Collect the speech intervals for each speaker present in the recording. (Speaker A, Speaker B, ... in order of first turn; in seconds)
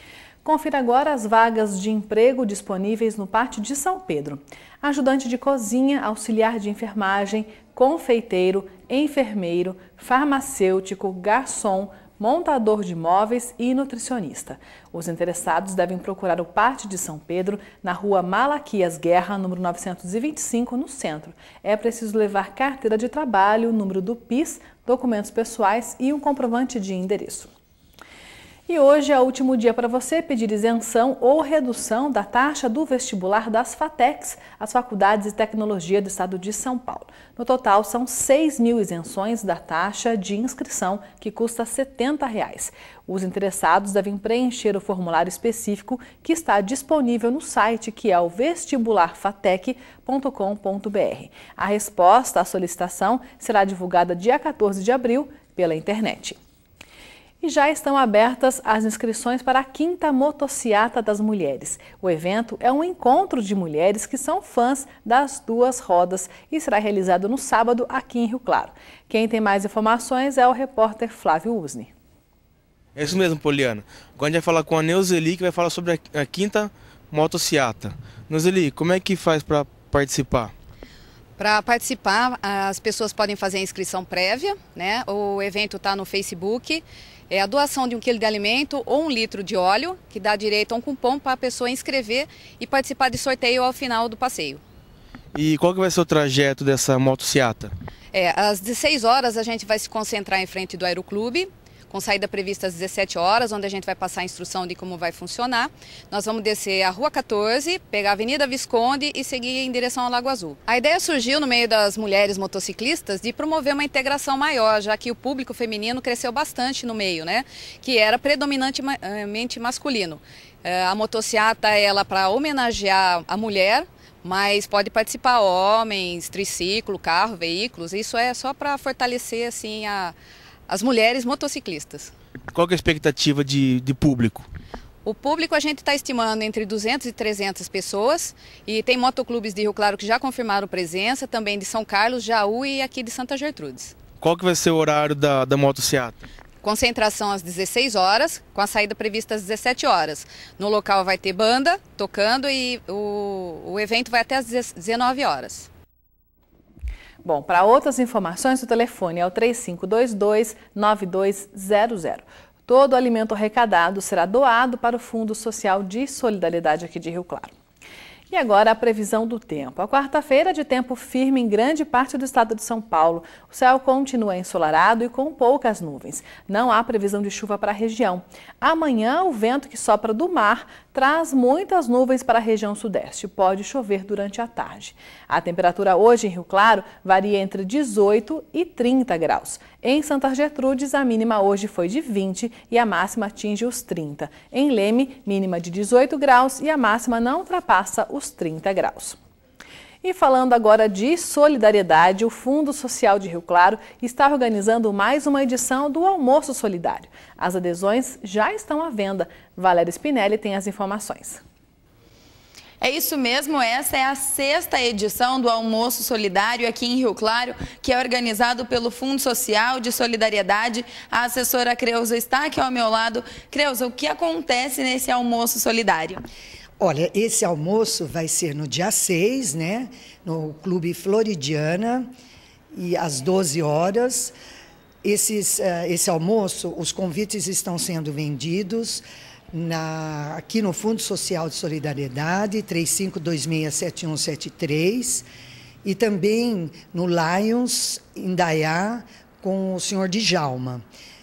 Speaker A: 0.4-27.5, 28.7-56.4, 57.4-71.9, 157.2-167.5, 168.3-199.2, 200.0-211.4
Speaker B: 73.0-80.5, 95.3-97.7, 132.5-134.5, 144.2-146.2
Speaker C: 81.4-94.6, 98.1-130.1, 130.7-132.1, 135.0-143.9, 146.6-155.7
Speaker D: 212.8-226.2
Speaker E: 226.8-232.1, 232.7-234.3, 235.0-245.2, 245.8-250.8